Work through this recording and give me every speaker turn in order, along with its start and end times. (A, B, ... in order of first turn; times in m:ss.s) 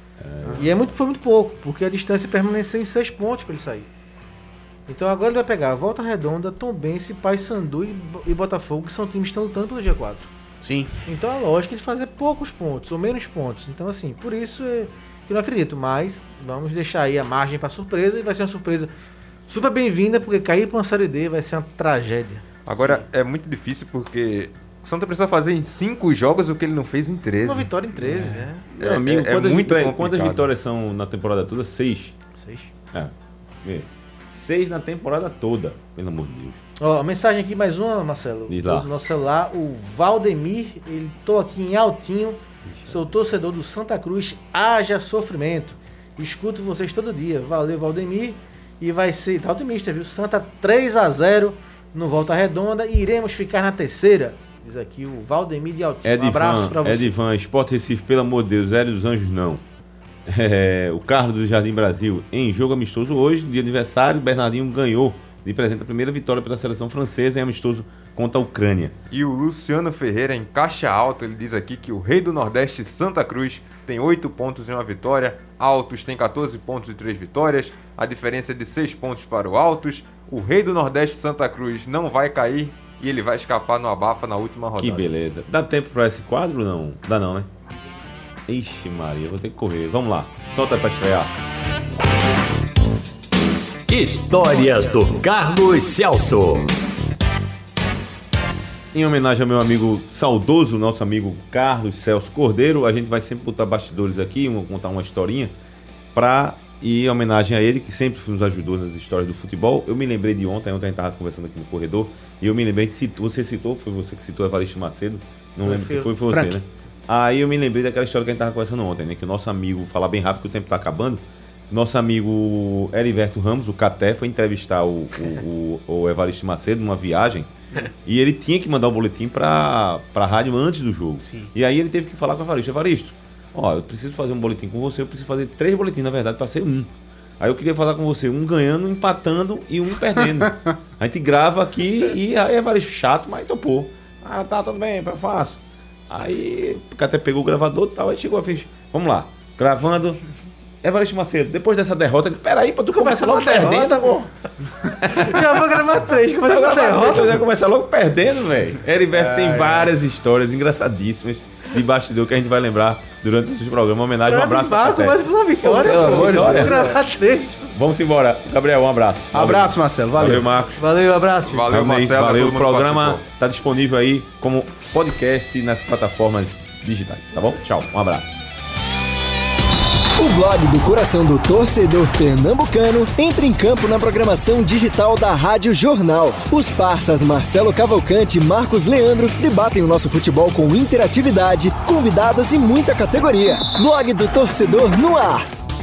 0:00.2-0:00.9 A
0:00.5-0:03.9 B
0:04.9-0:10.3 B
0:10.6-0:10.9 C
0:11.0-0:18.9 B
0:19.5-0:22.4 B
0:22.6-0:27.7 D
0:22.8-0:23.0 C
0:27.4-0:28.6 B
0:28.0-0:32.2 A
0:28.8-0:30.4 D
0:32.4-0:32.7 B
0:32.9-0:36.6 A
0:36.8-0:57.1 B
0:38.5-0:38.9 A
0:42.7-0:42.9 A
0:56.0-0:59.6 A
1:00.2-1:08.9 A
1:09.1-1:25.1 D
1:24.8-1:27.5 A
1:28.5-1:31.4 A
1:33.9-1:36.7 E
1:38.9-1:45.5 A
1:46.1-2:07.5 A
1:55.6-1:56.4 B
2:08.0-2:30.2 A
2:11.2-2:11.5 C
2:30.8-2:34.3 A
2:33.0-2:34.2 B
2:33.3-2:33.9 C
2:34.8-2:35.8 A
2:35.0-2:37.4 B
2:36.4-2:47.0 A
2:39.1-2:39.9 C
2:44.2-2:47.8 B
2:45.7-2:47.0 C
2:47.7-2:50.9 A
2:49.3-2:50.5 C
2:50.8-2:51.7 B
2:51.4-2:53.2 D
2:51.7-2:58.4 A
3:00.2-3:15.5 F